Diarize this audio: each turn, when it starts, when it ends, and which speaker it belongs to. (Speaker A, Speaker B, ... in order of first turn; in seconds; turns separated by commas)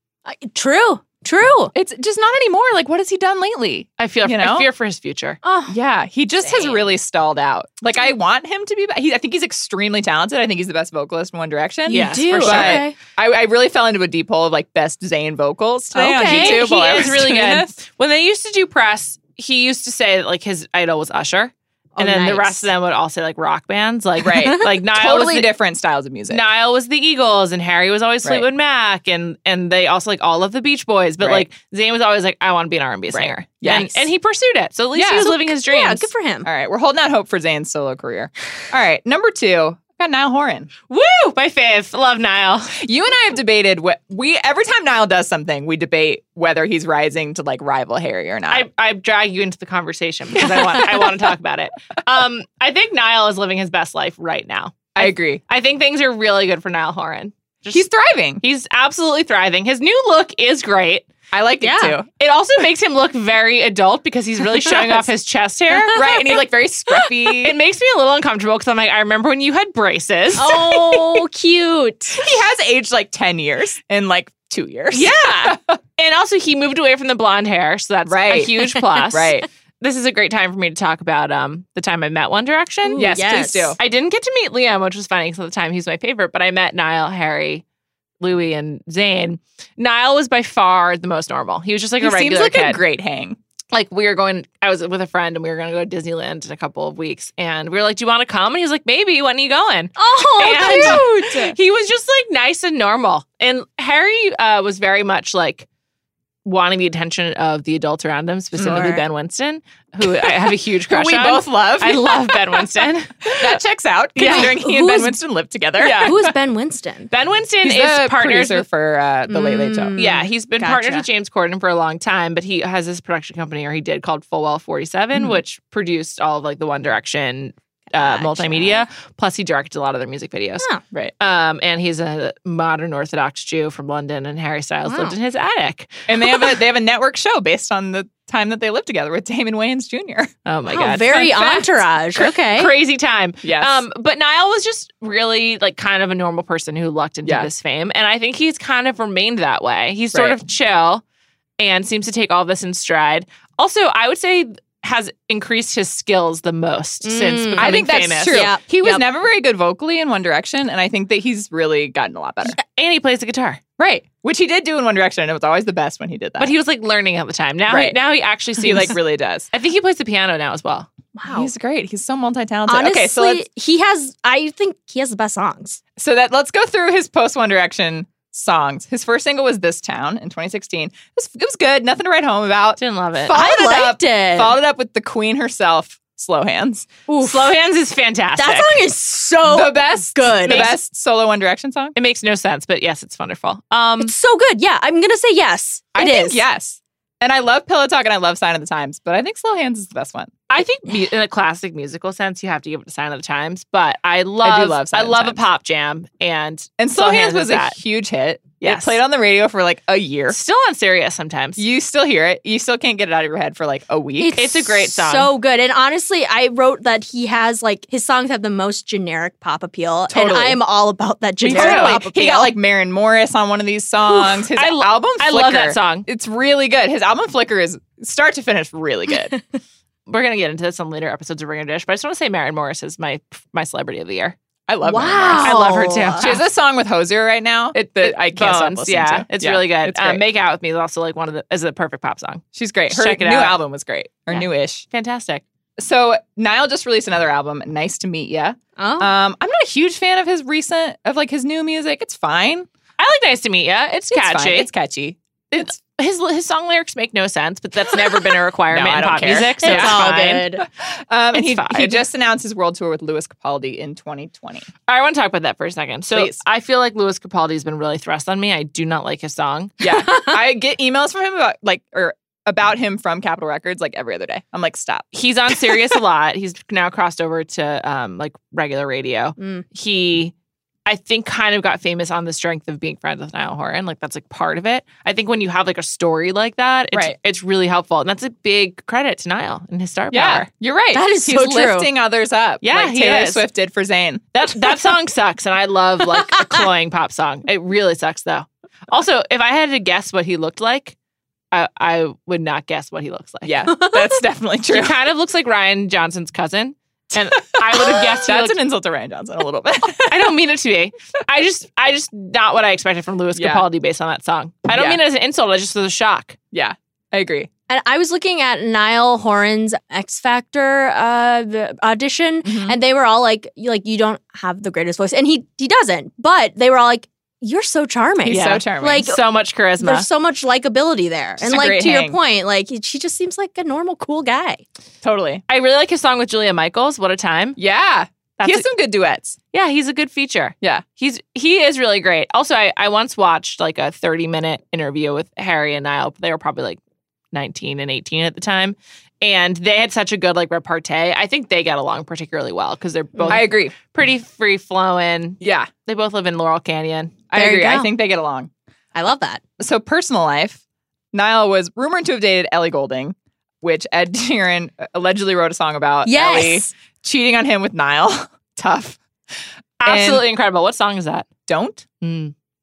Speaker A: 0.3-1.7, Speaker B: 1.7-4.7, Speaker C: 4.0-5.4, Speaker A: 5.4-5.8, Speaker B: 5.7-17.7, Speaker C: 6.5-6.8, Speaker C: 11.9-12.9, Speaker A: 11.9-13.0, Speaker A: 15.9-16.7, Speaker C: 16.2-25.5, Speaker A: 22.0-22.7, Speaker B: 24.2-26.4, Speaker C: 26.3-36.1, Speaker B: 31.2-31.5, Speaker B: 33.1-34.1, Speaker B: 35.0-35.3, Speaker A: 35.1-36.5, Speaker B: 36.5-40.7, Speaker C: 40.9-42.8, Speaker B: 42.7-48.7, Speaker C: 48.5-57.9, Speaker B: 50.4-51.1, Speaker B: 55.0-55.4, Speaker B: 57.7-58.4, Speaker C: 58.4-61.1, Speaker B: 61.3-62.1, Speaker A: 61.6-62.0, Speaker C: 62.2-66.0, Speaker B: 65.9-67.6, Speaker C: 67.3-71.2, Speaker A: 70.3-72.3, Speaker B: 72.2-75.8, Speaker C: 74.9-83.0, Speaker B: 78.1-79.5, Speaker A: 82.8-83.8, Speaker B: 83.0-83.8, Speaker C: 83.8-87.6, Speaker C: 88.2-92.8, Speaker B: 92.0-93.4, Speaker C: 93.7-105.7, Speaker A: 100.0-101.6, Speaker B: 100.6-101.1, Speaker C: 106.5-113.6, Speaker B: 108.6-109.0, Speaker A: 108.6-109.0, Speaker B: 110.2-112.7, Speaker B: 113.3-116.3, Speaker C: 114.2-114.6, Speaker A: 114.2-115.2, Speaker C: 115.8-116.2, Speaker A: 115.8-117.1, Speaker C: 117.1-118.7, Speaker B: 117.6-120.0, Speaker A: 119.3-121.0, Speaker C: 120.0-130.7, Speaker A: 127.9-128.9, Speaker C: 131.2-136.5, Speaker A: 134.9-135.1, Speaker B: 136.1-140.3, Speaker C: 140.5-151.0, Speaker A: 140.7-142.7, Speaker B: 143.4-143.8, Speaker B: 147.2-147.5, Speaker B: 150.1-150.4, Speaker C: 151.6-158.5, Speaker A: 157.0-157.8, Speaker B: 157.6-162.6, Speaker A: 158.3-159.0, Speaker C: 162.6-163.6, Speaker B: 163.8-166.5, Speaker C: 166.4-169.0, Speaker B: 167.7-168.0, Speaker B: 168.6-169.5, Speaker C: 169.5-170.9, Speaker A: 171.2-171.5, Speaker B: 171.3-173.4, Speaker A: 172.7-175.8, Speaker B: 176.0-186.9, Speaker C: 182.8-183.3, Speaker A: 183.3-184.6, Speaker A: 187.1-187.5, Speaker C: 187.2-188.8, Speaker A: 188.4-190.7, Speaker B: 189.5-191.9, Speaker C: 190.4-190.8, Speaker C: 191.9-194.1, Speaker A: 194.0-196.4, Speaker B: 195.9-200.3, Speaker C: 200.5-207.8, Speaker B: 204.4-205.4, Speaker B: 206.8-210.4, Speaker C: 208.6-209.0, Speaker C: 210.3-211.6, Speaker B: 211.6-214.4, Speaker A: 214.2-222.5, Speaker C: 214.3-215.3, Speaker B: 220.1-220.6, Speaker C: 221.4-222.0, Speaker B: 221.5-229.4, Speaker C: 224.1-226.1, Speaker C: 230.1-234.4, Speaker B: 234.7-235.6, Speaker A: 234.8-236.3, Speaker C: 235.3-236.4, Speaker B: 236.2-240.2, Speaker C: 237.8-243.6, Speaker B: 242.5-244.9, Speaker C: 244.3-245.4, Speaker B: 245.8-252.7, Speaker A: 248.8-249.1, Speaker C: 253.0-254.7, Speaker B: 254.1-255.7, Speaker C: 255.5-260.5, Speaker B: 258.7-260.1, Speaker A: 259.6-260.6, Speaker B: 260.6-264.7, Speaker C: 261.3-262.0, Speaker C: 264.9-269.8, Speaker B: 266.1-266.4, Speaker B: 269.8-275.8, Speaker C: 275.1-280.3, Speaker A: 279.4-279.6, Speaker C: 280.9-290.5, Speaker B: 290.1-294.6, Speaker A: 290.9-291.9, Speaker C: 292.6-293.4, Speaker C: 294.4-301.0, Speaker C: 301.5-303.6, Speaker B: 303.4-305.0, Speaker A: 303.8-304.0, Speaker C: 304.7-308.6, Speaker B: 307.5-310.4, Speaker C: 310.1-316.4, Speaker B: 313.4-313.6, Speaker B: 314.7-315.0, Speaker B: 316.5-317.5, Speaker A: 317.7-329.2, Speaker B: 322.4-322.8, Speaker B: 328.3-329.1, Speaker C: 328.3-330.1, Speaker A: 329.8-334.6, Speaker B: 331.4-332.2, Speaker B: 335.0-335.4, Speaker C: 335.5-337.6, Speaker B: 337.6-339.4, Speaker C: 338.4-338.7, Speaker C: 339.5-346.8, Speaker C: 347.3-357.2, Speaker A: 353.2-353.4, Speaker B: 353.3-353.7, Speaker B: 355.4-355.7, Speaker B: 357.3-358.5, Speaker A: 357.3-357.9, Speaker A: 358.9-359.4, Speaker B: 359.6-360.6, Speaker B: 361.1-369.0, Speaker A: 366.1-366.7, Speaker C: 369.8-371.3, Speaker B: 369.8-370.3, Speaker B: 371.5-371.9, Speaker C: 372.0-372.3